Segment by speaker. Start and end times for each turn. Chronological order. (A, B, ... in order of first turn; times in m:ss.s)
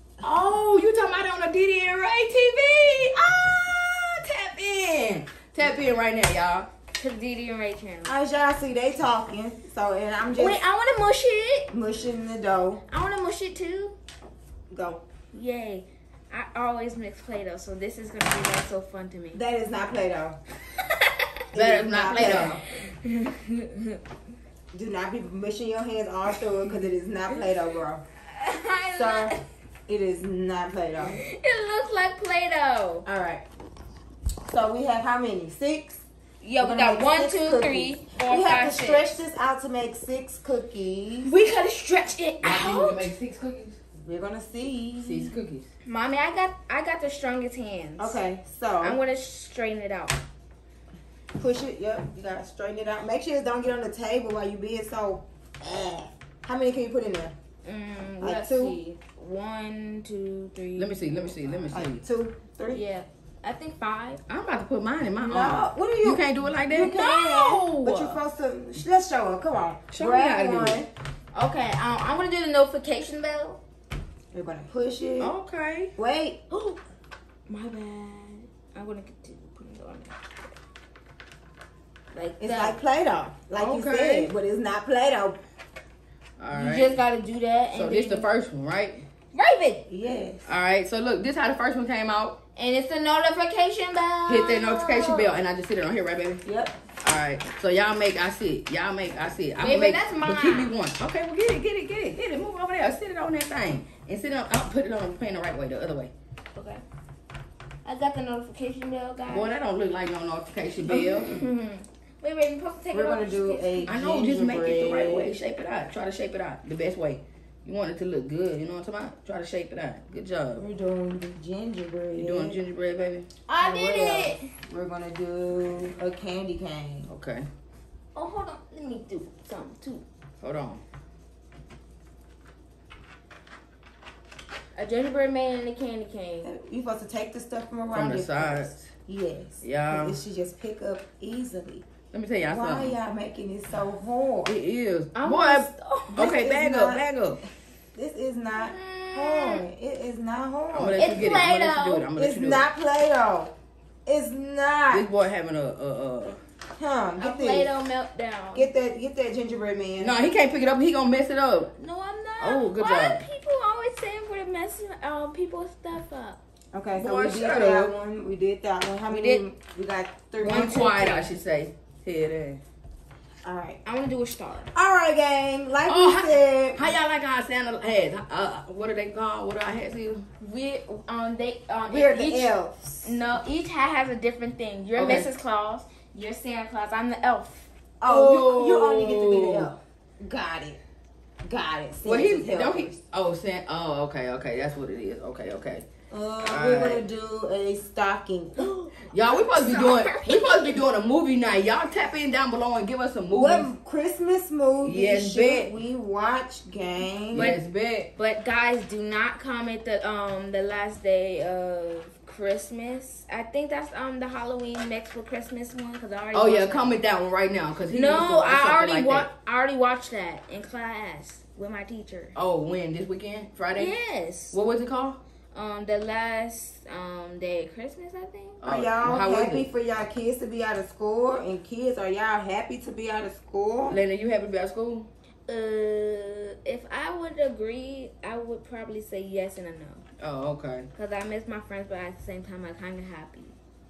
0:00.2-0:06.7 A
0:07.0-0:08.2 B
0:08.0-0:10.6 C
0:10.3-0:11.7 B
0:11.7-0:12.8 C
0:12.9-0:14.0 B
0:14.7-0:15.0 C
0:15.3-0:19.4 B
0:19.3-0:20.4 C
0:20.8-0:21.1 B
0:21.5-0:22.6 C
0:21.5-0:22.6 A
0:22.2-0:22.5 B
0:23.0-0:24.0 B
0:24.7-0:28.0 C
0:28.3-0:29.3 B
0:28.9-0:29.3 C
0:29.9-0:31.2 C
0:31.1-0:33.0 B
0:33.1-0:33.4 C
0:34.5-0:36.0 C
0:36.4-0:39.2 B
0:36.6-0:41.3 C
0:41.2-0:43.1 B
0:42.4-0:43.8 A
0:44.0-0:45.3 C
0:45.0-0:45.7 A
0:45.8-0:48.2 B
0:48.0-0:49.0 C
0:48.8-0:50.2 B
0:51.4-0:57.4 C
0:57.6-1:01.6 B
0:58.2-0:58.8 C
1:00.8-1:02.0 A
1:01.7-1:02.8 C
1:02.7-1:04.2 B
1:04.3-1:07.0 A
1:05.2-1:10.9 C
1:06.9-1:08.2 B
1:09.9-1:10.8 A
1:11.3-1:13.6 B
1:14.3-1:15.3 C
1:15.2-1:15.9 A
1:16.0-1:16.4 C
1:16.5-1:16.8 B
1:17.5-1:20.2 B
1:22.1-1:22.8 B
1:22.4-1:25.4 C
1:23.6-1:24.3 A
1:26.4-1:27.0 A
1:26.5-1:28.3 B
1:27.7-1:29.0 A
1:29.3-1:29.9 B
1:29.9-1:30.5 C
1:30.4-1:32.4 A
1:32.6-1:35.3 B
1:34.3-1:36.4 A
1:36.4-1:36.8 C
1:37.0-1:46.1 A
1:39.6-1:40.7 B
1:46.6-1:46.8 B
1:47.8-1:49.5 B
1:49.3-1:51.4 A
1:50.9-1:51.5 C
1:51.2-1:53.9 B
1:52.9-1:55.3 C
1:53.9-2:00.6 A
2:00.6-2:02.6 C
2:02.2-2:03.3 A
2:03.5-2:04.5 B
2:03.6-2:07.1 C
2:07.1-2:07.5 A
2:08.1-2:10.0 B
2:10.4-2:10.8 A
2:14.8-2:16.5 B
2:16.4-2:21.9 C
2:17.9-2:18.9 A
2:19.6-2:20.2 A
2:22.1-2:23.0 A
2:22.5-2:24.6 C
2:24.4-2:27.4 A
2:25.2-2:26.2 B
2:26.1-2:27.0 C
2:28.0-2:31.1 C
2:28.6-2:29.6 B
2:30.7-2:32.7 A
2:31.0-2:32.1 B
2:32.2-2:33.5 C
2:34.1-2:35.1 C
2:34.9-2:36.4 A
2:36.8-2:37.7 C
2:37.2-2:38.7 B
2:38.5-2:40.2 C
2:40.0-2:41.7 A
2:41.8-2:46.4 B
2:42.4-2:43.2 A
2:46.7-2:50.9 C
2:46.9-2:47.9 A
2:49.1-2:49.4 B
2:50.4-2:51.3 B
2:50.4-2:52.6 A
2:53.4-2:53.8 C
2:53.8-2:54.7 B
2:54.7-2:56.9 C
2:55.9-3:00.2 A
3:00.4-3:07.7 B
3:01.9-3:03.1 C
3:05.0-3:05.3 A
3:08.0-3:10.8 C
3:08.1-3:09.7 A
3:11.4-3:13.0 C
3:12.0-3:15.9 A
3:16.1-3:18.7 C
3:16.4-3:17.0 A
3:18.6-3:20.8 B
3:19.1-3:23.7 A
3:23.3-3:27.6 C
3:24.8-3:25.7 A
3:27.3-3:28.1 A
3:28.2-3:37.0 B
3:36.3-3:39.3 A
3:37.9-3:42.4 B
3:42.4-3:44.0 A
3:43.8-3:44.6 B
3:44.5-3:45.2 A
3:45.5-3:48.6 B
3:48.6-3:49.7 A
3:48.6-3:54.0 C
3:53.9-3:55.1 A
3:55.5-4:00.0 B
4:00.2-4:00.9 A
4:01.0-4:03.6 B